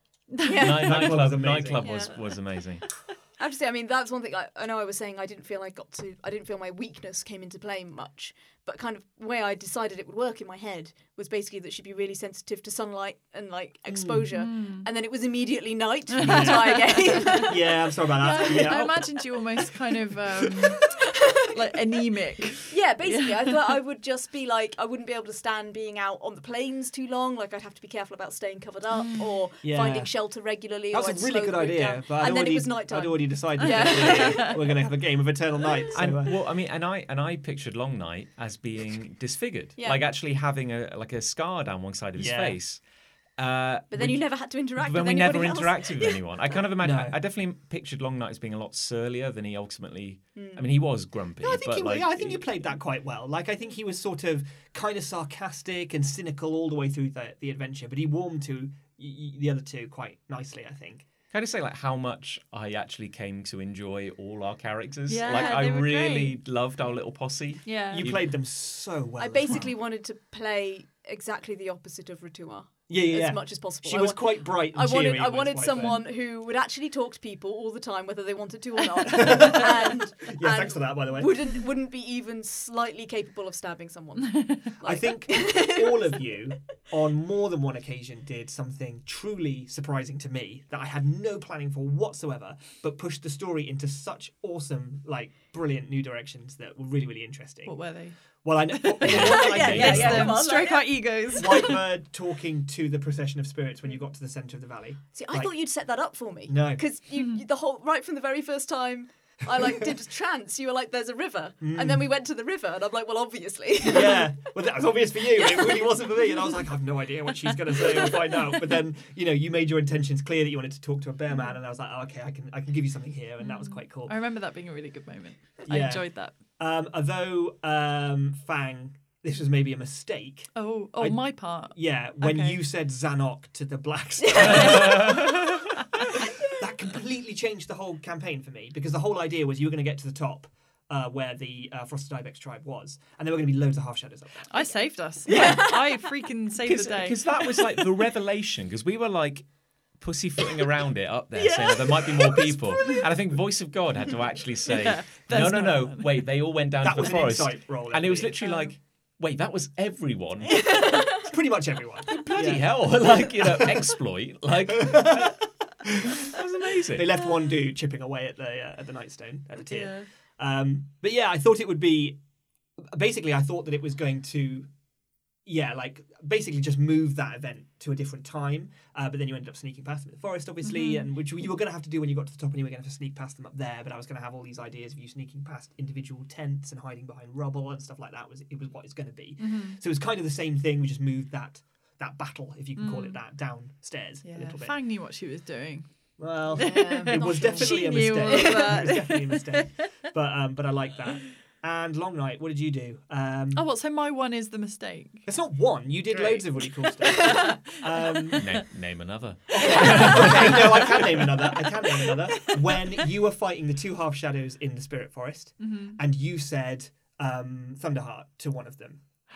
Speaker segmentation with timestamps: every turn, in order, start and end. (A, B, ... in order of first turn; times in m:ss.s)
0:00.3-0:01.1 A
0:00.4-0:02.9 B
0:00.4-0:01.0 C
0:00.7-0:02.0 D
0:01.8-0:02.4 C
0:03.4-0:17.8 C
0:13.9-0:14.3 D
0:14.3-0:14.9 A
0:16.2-0:17.4 A
0:16.2-0:19.2 D
0:18.2-0:20.9 A
0:18.4-0:18.8 C
0:20.4-0:20.8 D
0:21.0-0:21.5 C
0:21.5-0:23.7 A
0:22.7-0:34.6 C
0:28.9-0:29.3 A
0:29.6-0:30.1 D
0:30.9-0:36.4 D
0:33.6-0:34.6 A
0:35.9-0:42.8 B
0:42.2-0:42.6 D
0:43.4-0:52.4 B
0:43.9-0:46.4 C
0:46.8-0:47.2 D
0:50.4-0:50.6 C
0:51.4-1:01.0 D
1:01.3-1:08.3 B
1:05.1-1:06.4 A
1:05.2-1:05.7 C
1:07.6-1:08.1 A
1:07.9-1:09.7 D
1:09.2-1:26.3 C
1:12.9-1:16.0 D
1:19.0-1:21.3 D
1:24.2-1:24.6 A
1:24.8-1:37.8 D
1:37.6-1:38.2 A
1:38.4-1:40.5 D
1:38.7-1:41.8 A
1:39.0-1:41.0 C
1:39.0-1:40.3 B
1:41.3-1:45.5 D
1:45.1-1:54.4 C
1:46.5-1:46.8 D
1:51.6-1:52.1 D
1:53.9-2:04.1 D
1:55.3-1:56.6 C
1:57.5-1:58.4 C
2:03.4-2:06.3 A
2:05.6-2:06.0 D
2:06.6-2:24.5 D
2:10.5-2:12.6 A
2:14.2-2:15.2 C
2:14.4-2:15.3 B
2:24.5-2:27.9 A
2:25.3-2:25.8 B
2:25.3-2:26.0 C
2:26.6-2:29.4 B
2:30.0-2:40.7 B
2:31.5-2:33.0 C
2:32.2-2:32.4 D
2:34.7-2:36.2 A
2:36.8-2:38.4 D
2:38.4-2:38.7 A
2:40.5-2:41.2 C
2:41.2-2:43.9 D
2:42.1-2:45.4 B
2:44.7-2:46.2 D
2:46.1-2:47.1 B
2:46.9-2:52.2 D
2:49.7-2:50.1 A
2:52.8-2:54.7 D
2:55.4-3:14.7 D
3:00.6-3:01.1 A
3:09.4-3:09.8 A
3:12.8-3:13.2 A
3:14.2-3:15.9 A
3:16.2-3:23.6 D
3:16.5-3:19.8 A
3:16.5-3:18.9 C
3:23.5-3:25.2 A
3:25.3-3:28.6 D
3:26.8-3:28.4 A
3:28.4-3:31.3 B
3:29.5-3:39.0 D
3:30.0-3:30.5 A
3:31.9-3:32.8 A
3:35.6-3:36.0 A